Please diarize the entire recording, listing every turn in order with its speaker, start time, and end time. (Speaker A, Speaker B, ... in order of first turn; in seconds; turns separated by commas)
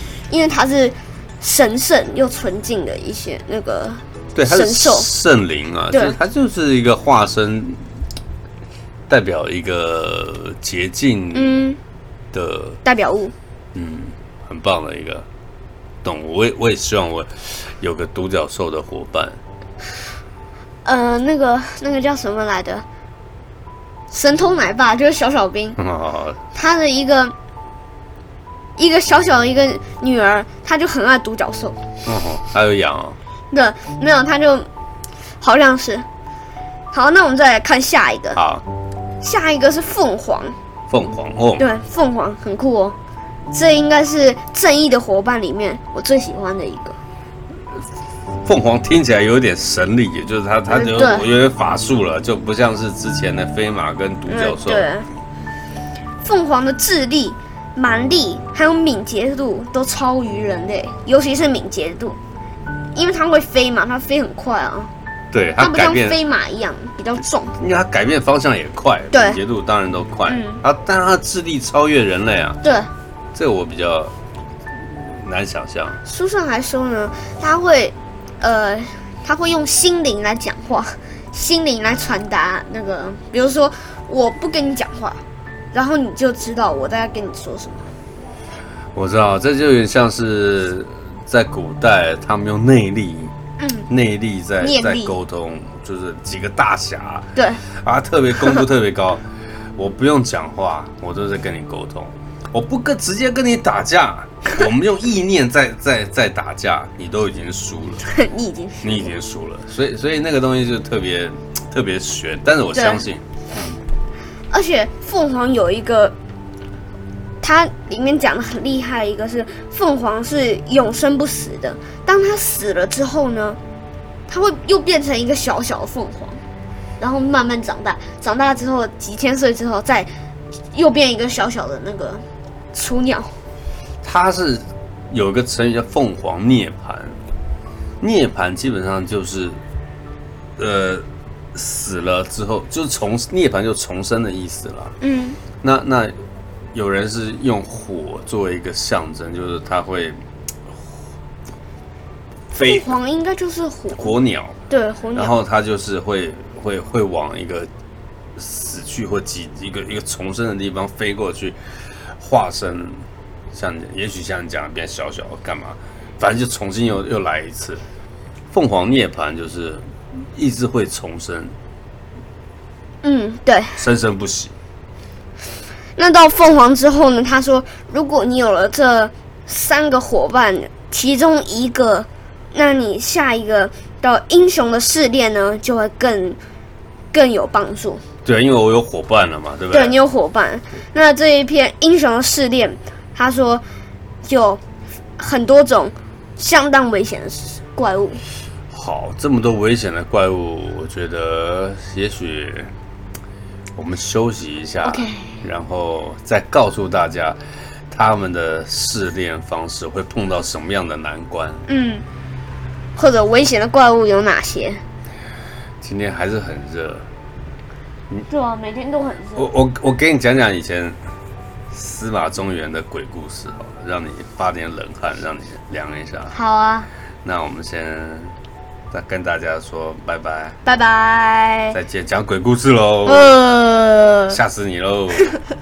Speaker A: 0.3-5.1, Speaker B: 4.3-7.8, Speaker B: 9.1-11.6, Speaker A: 11.3-11.8, Speaker B: 12.3-12.8, Speaker A: 12.8-13.3, Speaker B: 13.7-15.2, Speaker B: 16.0-19.4, Speaker A: 20.8-22.8, Speaker A: 24.1-25.8, Speaker B: 25.8-26.4, Speaker A: 26.5-27.3, Speaker A: 28.8-31.8, Speaker B: 32.0-33.2, Speaker A: 33.5-34.7, Speaker A: 35.4-36.0, Speaker A: 36.9-38.4, Speaker B: 38.3-38.6, Speaker A: 39.2-40.5, Speaker B: 40.9-41.6, Speaker A: 41.6-43.0, Speaker A: 43.5-47.0, Speaker B: 48.4-54.9, Speaker A: 50.7-51.3, Speaker A: 54.3-55.1, Speaker A: 56.2-62.2, Speaker A: 62.9-64.9, Speaker B: 65.3-66.2, Speaker A: 65.6-67.6, Speaker B: 67.6-72.6, Speaker A: 69.1-69.4, Speaker A: 70.3-70.6, Speaker A: 72.6-72.9, Speaker B: 73.3-74.1, Speaker B: 74.9-76.0, Speaker A: 76.0-85.2, Speaker A: 85.7-87.9, Speaker B: 88.9-93.3, Speaker A: 93.6-93.9, Speaker B: 93.9-99.2, Speaker A: 94.6-95.1, Speaker A: 97.3-97.6, Speaker B: 99.8-108.0, Speaker A: 108.0-109.2, Speaker B: 108.8-113.8, Speaker A: 112.7-113.0, Speaker A: 114.5-116.1, Speaker A: 117.4-123.6, Speaker A: 124.3-126.4, Speaker A: 127.0-130.1, Speaker A: 130.7-133.3, Speaker B: 134.0-137.2, Speaker B: 138.0-139.6, Speaker B: 140.6-144.9, Speaker A: 145.0-145.4, Speaker B: 145.6-146.2, Speaker B: 146.7-150.9, Speaker B: 152.5-152.9, Speaker A: 152.5-154.2, Speaker B: 154.0-154.6, Speaker A: 154.7-155.3, Speaker B: 155.1-157.7, Speaker B: 158.3-167.8, Speaker B: 168.5-171.5, Speaker A: 173.0-173.8, Speaker B: 173.8-174.5, Speaker A: 176.0-186.4, Speaker A: 187.1-188.0, Speaker B: 188.2-189.9, Speaker A: 189.7-193.6, Speaker A: 194.2-194.6, Speaker A: 195.2-198.2, Speaker B: 198.7-202.7, Speaker B: 203.7-207.4, Speaker A: 204.8-205.3, Speaker B: 207.9-211.6, Speaker A: 211.7-212.0, Speaker A: 212.9-214.8, Speaker B: 215.8-217.1, Speaker A: 218.3-219.5, Speaker B: 219.3-221.0, Speaker B: 221.7-226.3, Speaker A: 226.3-226.9, Speaker B: 227.2-228.3, Speaker B: 228.9-230.6, Speaker A: 230.7-231.8, Speaker B: 231.7-233.4, Speaker A: 233.1-234.4, Speaker B: 234.3-235.3